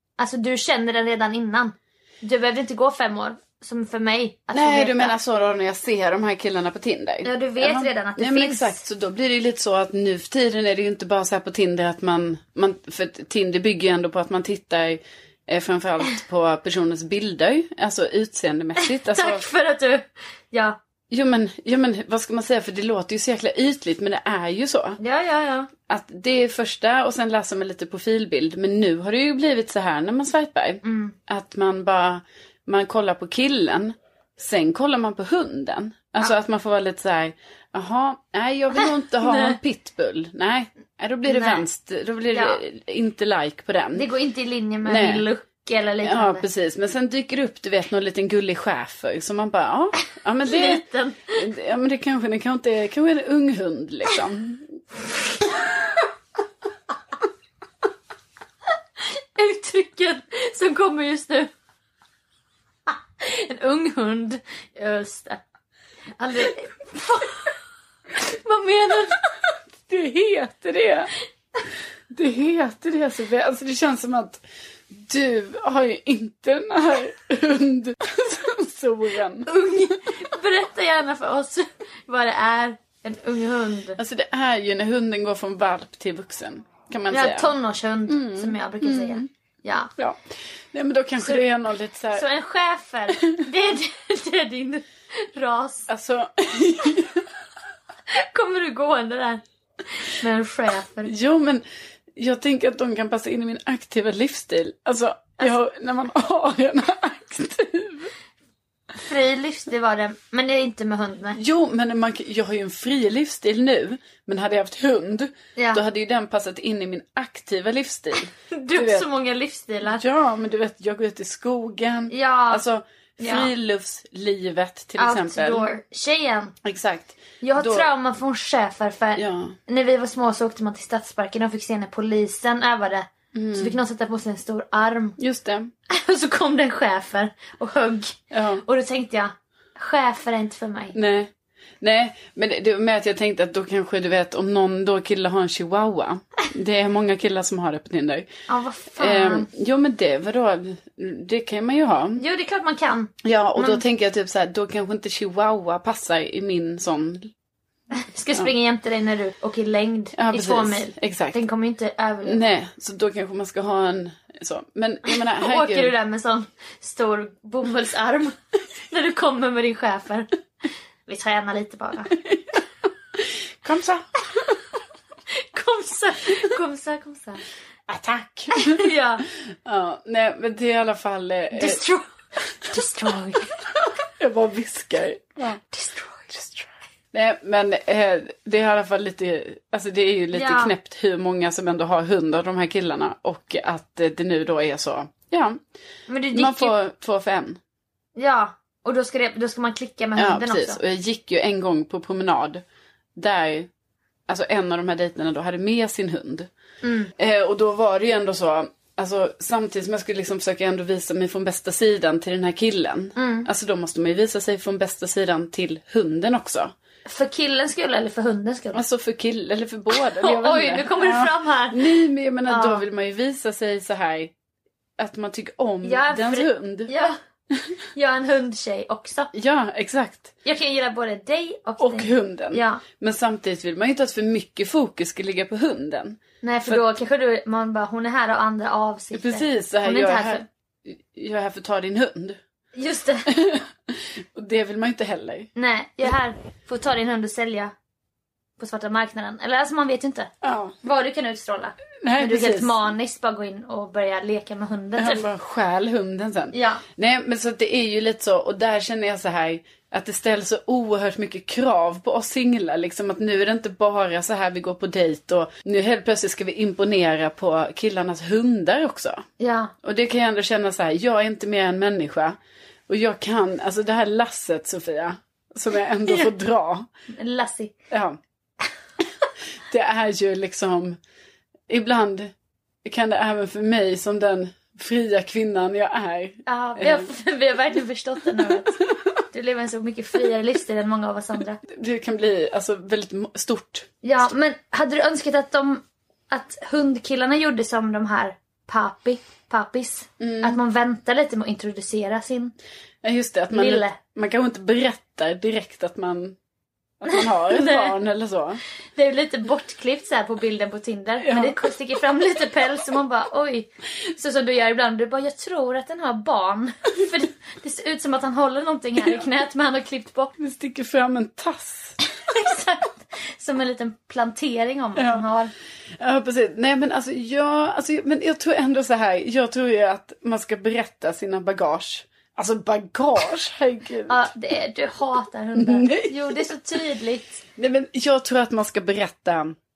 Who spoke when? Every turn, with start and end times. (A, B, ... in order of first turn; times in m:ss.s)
0:00.2-0:05.2 A
0:04.5-0:19.4 B
0:07.2-0:08.8 A
0:18.8-0:20.8 A
0:21.1-0:25.0 B
0:25.0-0:25.7 A
0:25.9-0:44.1 B
0:30.8-0:31.2 A
0:38.7-0:39.6 A
0:41.2-0:41.6 A
0:42.3-0:42.6 A
0:43.9-0:46.4 A
0:44.8-0:45.2 B
0:46.0-0:54.8 B
0:50.4-0:51.4 A
0:59.0-1:01.5 A
1:02.9-1:05.4 A
1:06.2-1:07.6 A
1:08.1-1:09.3 A
1:09.8-1:11.1 B
1:12.1-1:19.5 B
1:19.4-1:24.0 A
1:24.0-1:27.5 B
1:27.1-1:29.9 A
1:28.1-1:29.3 B
1:30.0-1:32.2 B
1:32.1-1:35.9 A
1:35.9-1:37.3 B
1:38.1-1:41.1 A
1:41.0-1:41.6 B
1:42.1-1:48.1 B
1:49.0-1:51.4 A
1:51.4-1:59.1 B
1:55.6-1:55.8 A
1:58.5-2:00.0 A
1:59.8-2:05.7 B
2:02.1-2:02.6 A
2:03.2-2:03.5 A
2:05.0-2:06.6 A
2:06.6-2:07.9 B
2:07.4-2:15.2 A
2:09.2-2:09.6 B
2:13.3-2:13.8 B
2:15.2-2:15.7 B
2:15.9-2:21.0 A
2:18.3-2:18.6 B
2:20.9-2:28.3 B
2:28.5-2:29.5 A
2:29.0-2:32.2 B
2:32.2-2:33.8 A
2:33.2-2:37.3 B
2:37.9-2:42.4 A
2:40.2-2:41.4 B
2:42.2-2:45.9 B
2:45.1-2:50.3 A
2:51.1-2:52.2 A
2:52.2-2:54.6 B
2:55.3-2:57.4 A
2:57.9-2:58.9 B
2:58.5-2:59.2 A
2:59.5-3:01.8 B
3:01.5-3:03.6 A
3:03.7-3:05.6 B
3:05.7-3:06.7 A
3:07.1-3:15.6 B
3:10.3-3:10.7 A
3:16.1-3:16.8 A
3:16.3-3:17.6 B
3:18.2-3:20.8 A
3:20.2-3:22.6 B
3:23.2-3:23.7 B
3:24.3-3:26.5 B
3:26.8-3:27.1 A
3:27.2-3:36.7 B
3:33.2-3:33.5 A
3:37.1-3:38.8 A
3:38.7-3:44.3 B
3:39.9-3:42.8 A
3:45.0-3:46.9 B
3:45.8-3:47.2 A
3:47.9-3:49.3 A
3:49.3-3:50.4 B
3:50.4-3:52.8 A
3:51.8-3:56.8 B
3:56.4-4:00.4 A
3:59.1-4:02.4 B
4:02.7-4:03.3 A
4:03.3-4:05.5 B
4:05.6-4:07.7 A
4:08.6-4:10.3 A
4:10.4-4:10.7 B
4:10.8-4:15.2 A
4:12.0-4:12.8 B
4:15.0-4:29.2 B
4:16.5-4:16.8 A
4:29.4-4:29.7 A
4:29.8-4:32.4 B
4:32.9-4:36.9 B
4:37.1-4:37.7 A
4:37.9-4:38.2 B
4:39.7-4:41.0 B
4:41.7-4:42.3 B
4:42.8-4:47.1 B
4:46.4-4:51.6 A
4:51.6-4:53.9 B
4:54.0-5:02.6 A
5:00.2-5:00.6 B
5:03.0-5:06.4 B
5:03.5-5:04.0 A
5:07.0-5:08.6 B
5:07.1-5:08.0 A
5:09.0-5:20.3 A
5:11.2-5:11.7 B
5:19.0-5:19.3 B
5:20.4-5:22.0 B
5:22.0-5:25.5 A
5:25.0-5:25.2 B
5:26.0-5:34.2 B
5:34.1-5:37.4 A
5:35.6-5:36.4 B
5:37.6-5:39.6 B